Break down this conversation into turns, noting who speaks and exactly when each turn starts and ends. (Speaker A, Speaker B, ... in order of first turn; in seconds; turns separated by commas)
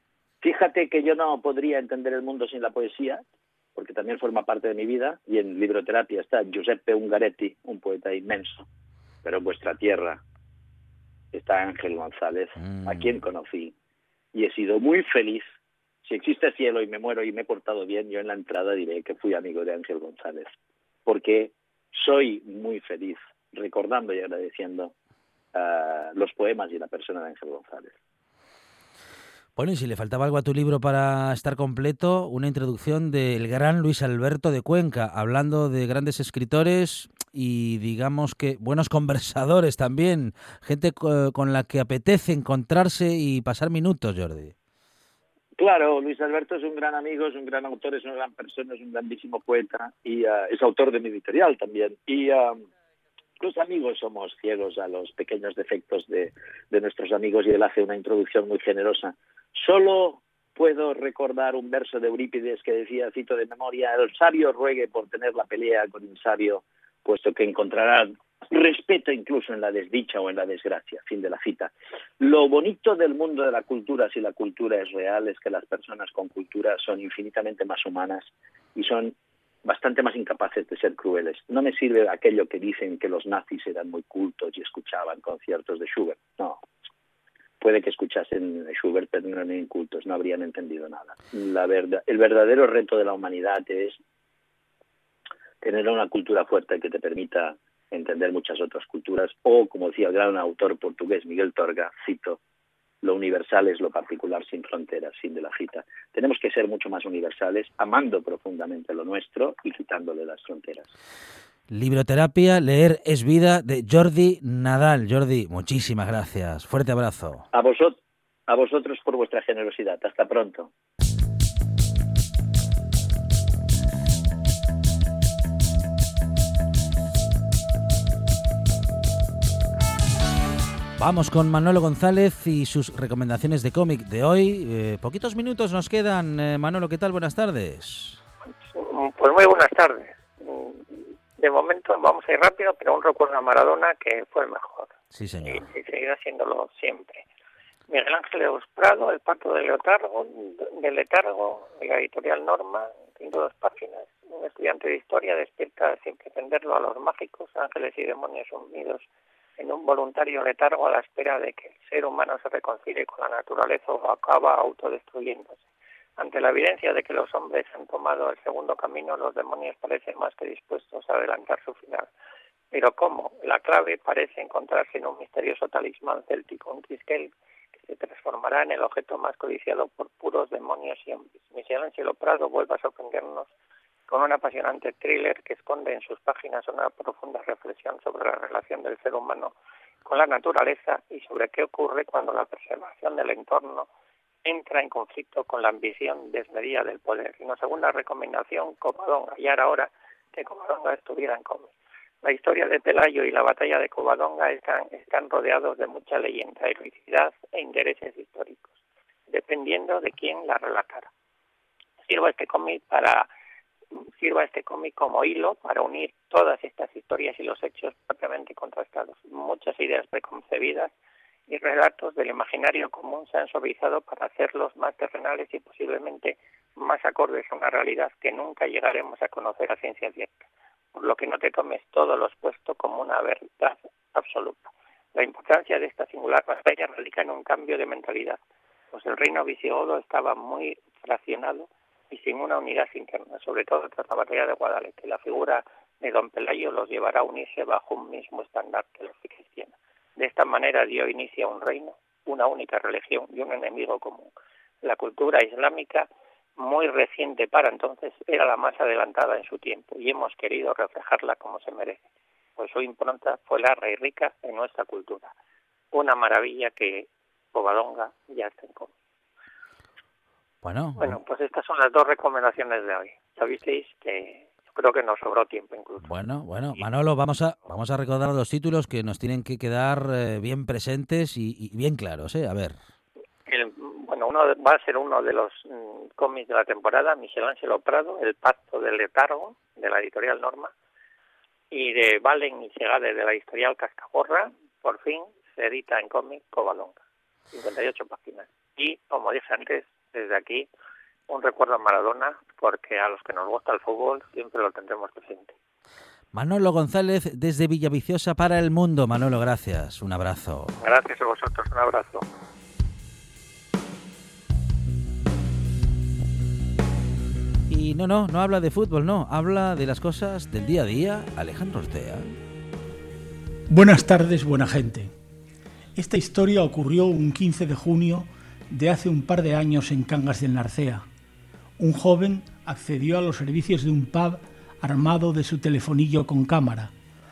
Speaker A: 0.4-3.2, Speaker A: 3.7-8.6, Speaker A: 9.2-10.2, Speaker A: 11.3-13.7, Speaker B: 12.6-13.1, Speaker A: 14.3-15.4, Speaker A: 16.0-20.5, Speaker A: 21.1-24.9, Speaker A: 25.5-27.9, Speaker B: 29.6-44.5, Speaker A: 45.6-52.6, Speaker A: 53.4-79.1, Speaker A: 79.6-86.6, Speaker A: 87.6-94.0, Speaker A: 95.6-102.4, Speaker A: 103.0-110.9, Speaker B: 111.7-117.4, Speaker A: 117.5-120.7, Speaker B: 131.0-138.2, Speaker C: 138.7-144.9, Speaker B: 145.1-145.7, Speaker C: 145.4-147.2, Speaker C: 147.9-159.0, Speaker C: 159.6-165.6, Speaker C: 166.2-172.1, Speaker C: 172.7-183.5, Speaker C: 184.1-189.5, Speaker C: 190.0-193.9, Speaker C: 194.4-201.7, Speaker C: 202.2-208.7, Speaker C: 209.3-211.1, Speaker C: 212.0-213.3, Speaker C: 214.2-220.9, Speaker C: 221.5-238.4, Speaker C: 238.9-262.0, Speaker C: 262.6-265.3, Speaker C: 265.9-268.9, Speaker B: 270.6-271.2, Speaker C: 271.0-276.1, Speaker B: 276.0-282.8, Speaker C: 283.4-290.7, Speaker C: 291.7-297.0, Speaker C: 297.5-300.7, Speaker C: 301.3-305.5, Speaker B: 306.3-310.7, Speaker C: 310.8-312.2, Speaker B: 317.7-322.3, Speaker D: 323.7-325.1, Speaker D: 325.9-331.1, Speaker D: 331.8-336.9